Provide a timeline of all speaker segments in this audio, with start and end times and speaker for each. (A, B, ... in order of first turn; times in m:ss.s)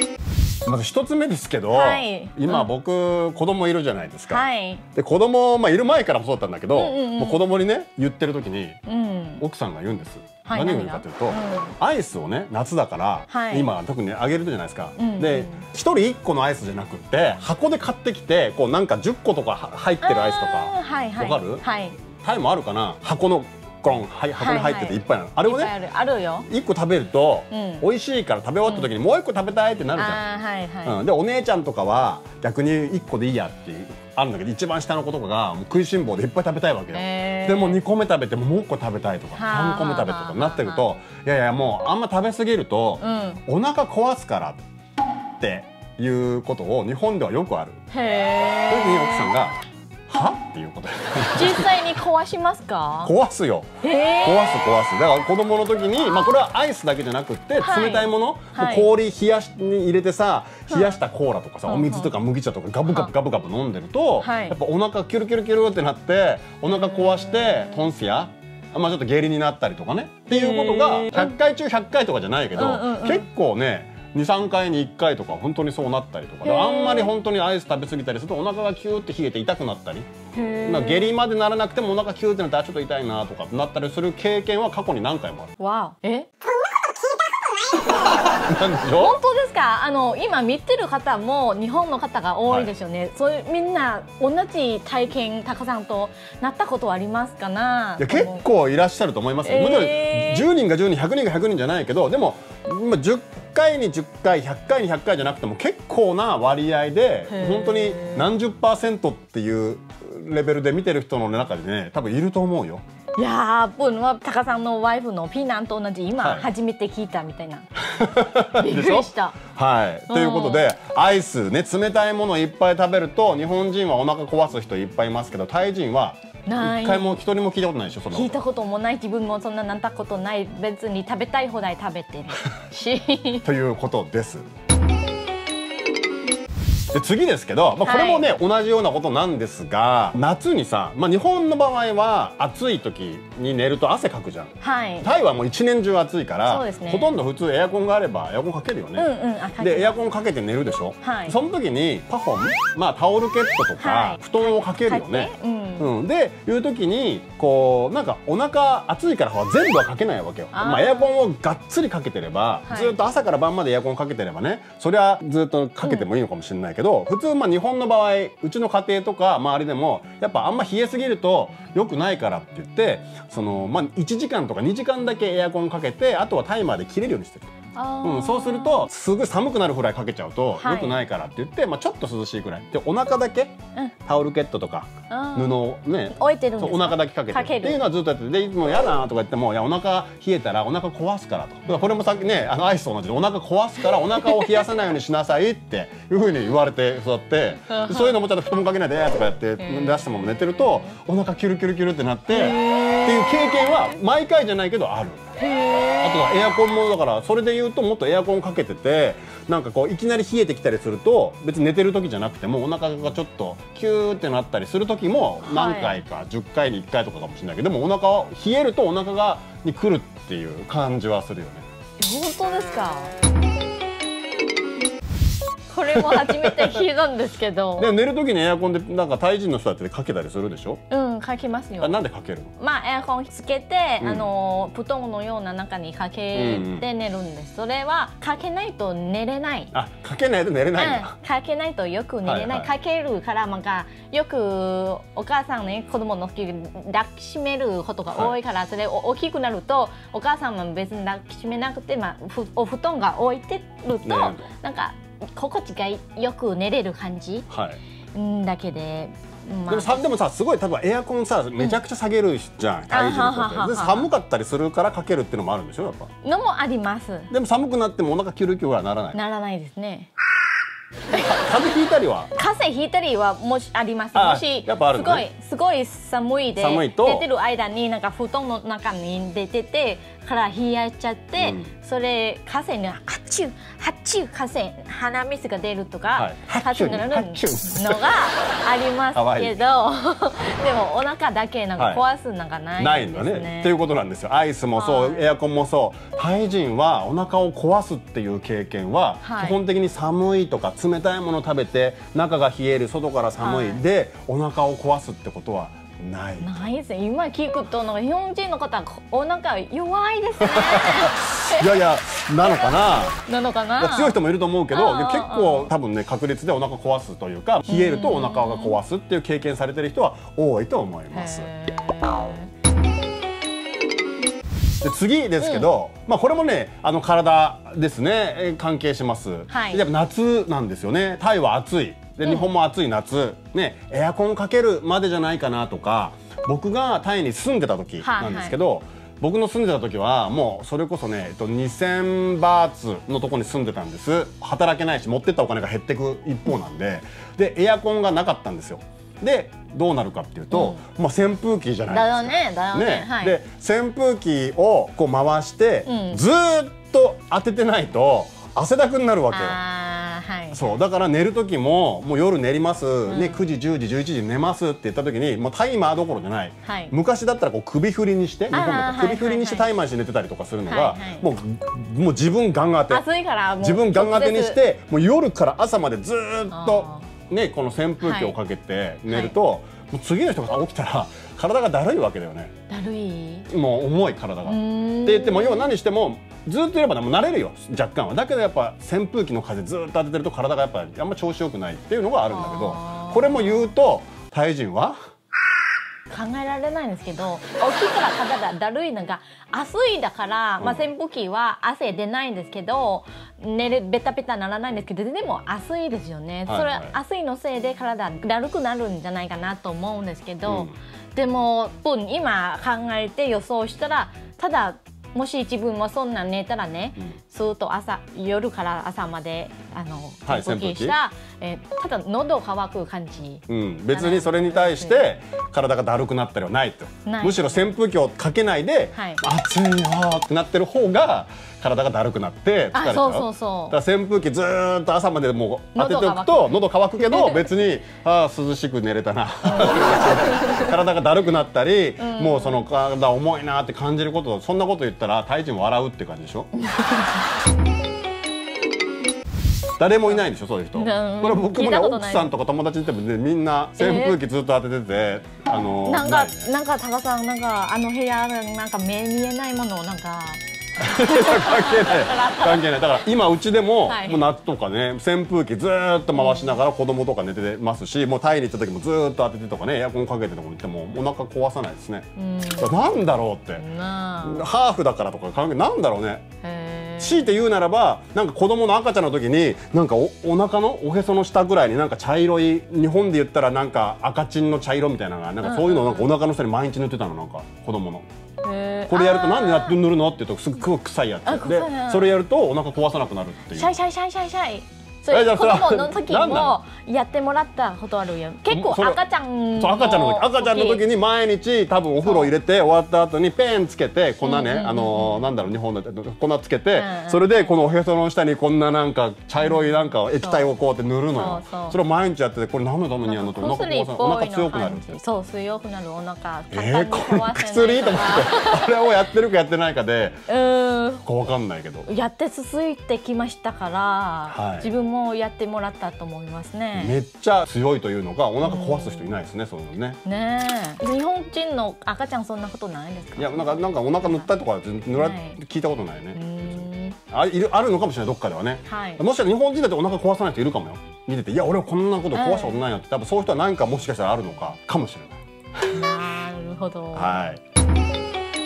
0:00.6-0:08.8 A
0:01.7-0:02.7 B
0:04.3-0:04.8 B
0:06.7-0:07.4 B
0:08.9-0:09.4 B
0:09.4-0:21.6 A
0:10.4-0:11.8 B
0:13.3-0:13.7 B
0:15.0-0:15.6 B
0:20.0-0:22.0 B
0:22.2-0:25.7 A
0:24.4-0:26.5 B
0:26.5-0:30.2 A
0:27.5-0:27.8 B
0:30.0-0:31.0 B
0:30.8-0:44.6 A
0:36.9-0:37.8 B
0:39.4-0:40.8 B
0:43.0-0:43.4 B
0:45.4-0:47.8 A
0:47.9-0:49.3 B
0:48.7-0:49.6 A
0:50.1-0:51.8 A
0:51.4-0:53.1 B
0:53.0-0:53.7 A
0:53.8-0:54.7 B
0:54.2-1:20.1 A
0:57.6-0:58.9 B
1:00.7-1:01.0 B
1:01.7-1:02.1 B
1:02.9-1:03.1 B
1:04.2-1:04.6 B
1:06.7-1:07.8 B
1:10.3-1:11.4 B
1:12.6-1:13.3 B
1:16.4-1:17.1 B
1:20.3-1:21.1 B
1:20.6-1:25.5 A
1:25.6-1:26.3 B
1:28.4-1:29.2 A
1:29.0-1:38.4 B
1:32.5-1:32.7 A
1:38.0-1:52.8 A
1:39.4-1:40.5 B
1:47.3-1:48.3 B
1:53.2-1:57.7 B
1:56.2-1:56.5 A
1:57.9-2:08.4 A
1:58.5-1:59.4 B
2:00.1-2:00.7 B
2:06.5-2:07.2 B
2:08.1-2:13.4 B
2:13.4-2:14.5 A
2:16.9-2:57.5 A
2:17.8-2:18.3 B
2:24.6-2:25.1 B
2:26.5-2:27.2 B
2:29.0-2:30.0 B
2:31.0-2:31.4 B
2:33.8-2:35.9 B
2:40.5-2:41.1 B
2:42.7-2:43.0 B
2:45.8-2:46.1 B
2:57.8-2:58.9 B
2:58.0-3:03.6 A
3:00.6-3:01.0 B
3:04.1-3:25.2 A
3:05.1-3:05.6 B
3:06.1-3:07.8 B
3:11.7-3:12.0 B
3:14.2-3:14.6 B
3:17.7-3:18.2 B
3:19.6-3:21.0 B
3:22.3-3:23.4 B
3:25.4-3:26.4 B
3:26.0-3:41.7 A
3:35.4-3:36.0 B
3:42.0-3:43.2 B
3:45.7-3:47.9 B
3:45.9-3:46.8 A
3:47.8-3:50.8 A
3:50.9-3:52.0 B
3:51.8-3:52.6 A
3:52.6-3:59.7 B
3:54.0-3:54.3 A
3:56.3-3:56.9 A
3:59.7-4:01.2 A
4:00.8-4:17.5 B
4:02.2-4:02.7 A
4:13.9-4:14.5 A
4:17.5-4:17.8 A
4:18.1-4:20.0 B
4:19.7-4:26.1 A
4:22.9-4:24.1 B
4:26.2-4:27.3 B
4:27.3-4:29.2 A
4:29.1-4:30.1 B
4:31.1-4:32.3 A
4:32.4-4:53.8 B
4:34.1-4:35.2 A
4:36.6-4:37.3 A
4:41.4-4:41.7 A
4:46.2-4:48.2 A
4:49.1-4:49.6 A
4:51.8-4:52.0 A
4:52.8-5:06.5 A
4:54.8-4:55.3 B
4:59.2-4:59.6 B
5:03.4-5:03.8 B
5:06.4-5:11.7 B
5:10.4-5:13.2 A
5:12.4-5:14.2 B
5:13.8-5:21.5 A
5:14.7-5:15.7 B
5:17.7-5:18.8 B
5:21.1-5:22.5 B
5:24.8-5:59.6 A
5:25.4-5:25.7 B
5:29.5-5:29.8 B
5:32.2-5:32.5 B
5:38.0-5:38.6 B
5:50.5-5:50.8 B
5:51.9-5:53.4 B
5:55.9-5:56.2 B
5:59.3-6:00.8 B
6:00.5-6:13.0 A
6:03.1-6:03.4 B
6:06.7-6:06.9 B
6:08.5-6:09.7 B
6:10.7-6:11.3 B
6:12.9-6:14.6 B
6:13.6-6:22.5 A
6:16.5-6:17.1 B
6:18.0-6:18.4 B
6:19.1-6:19.4 B
6:22.7-6:23.5 B
6:23.5-6:35.0 A
6:24.4-6:25.7 B
6:32.3-6:33.7 B
6:36.1-7:05.0 B
6:40.6-6:40.9 A
6:46.5-6:46.9 A
6:50.5-6:50.7 A
7:00.3-7:01.0 A
7:03.5-7:26.5 A
7:07.0-7:07.7 B
7:08.9-7:09.2 B
7:12.7-7:13.8 B
7:15.8-7:17.5 B
7:19.4-7:20.7 B
7:22.0-7:22.7 B
7:26.6-7:27.2 B
7:29.8-7:36.5 A
7:30.8-7:32.3 B
7:33.8-7:34.2 B
7:35.8-7:42.8 B
7:40.8-7:53.6 A
7:43.9-7:44.2 B
7:46.1-7:46.6 B
7:52.2-7:52.7 B
7:53.6-7:54.5 B
7:54.2-7:56.2 A
7:56.4-7:57.3 B
7:57.0-8:08.1 A
8:05.4-8:06.1 B
8:08.4-8:09.8 B
8:08.9-8:13.7 A
8:11.3-8:12.1 B
8:13.5-8:20.8 B
8:15.1-8:16.6 A
8:18.5-8:19.0 A
8:19.6-8:35.0 A
8:22.0-8:22.3 B
8:24.2-8:25.5 B
8:26.8-8:27.5 B
8:29.4-8:30.5 B
8:31.1-8:31.8 B
8:33.0-8:38.9 B
8:36.5-8:40.2 A
8:40.3-8:41.0 B
8:41.0-8:41.9 A
8:41.9-8:47.0 B
8:44.3-8:44.7 A
8:46.8-8:50.0 A
8:48.4-8:49.2 B
8:50.0-8:54.3 B
8:53.2-9:05.8 A
8:55.0-8:55.4 B
8:56.1-8:57.0 B
8:58.7-8:59.0 B
9:02.1-9:02.6 B
9:05.7-9:07.2 B
9:06.9-9:07.4 A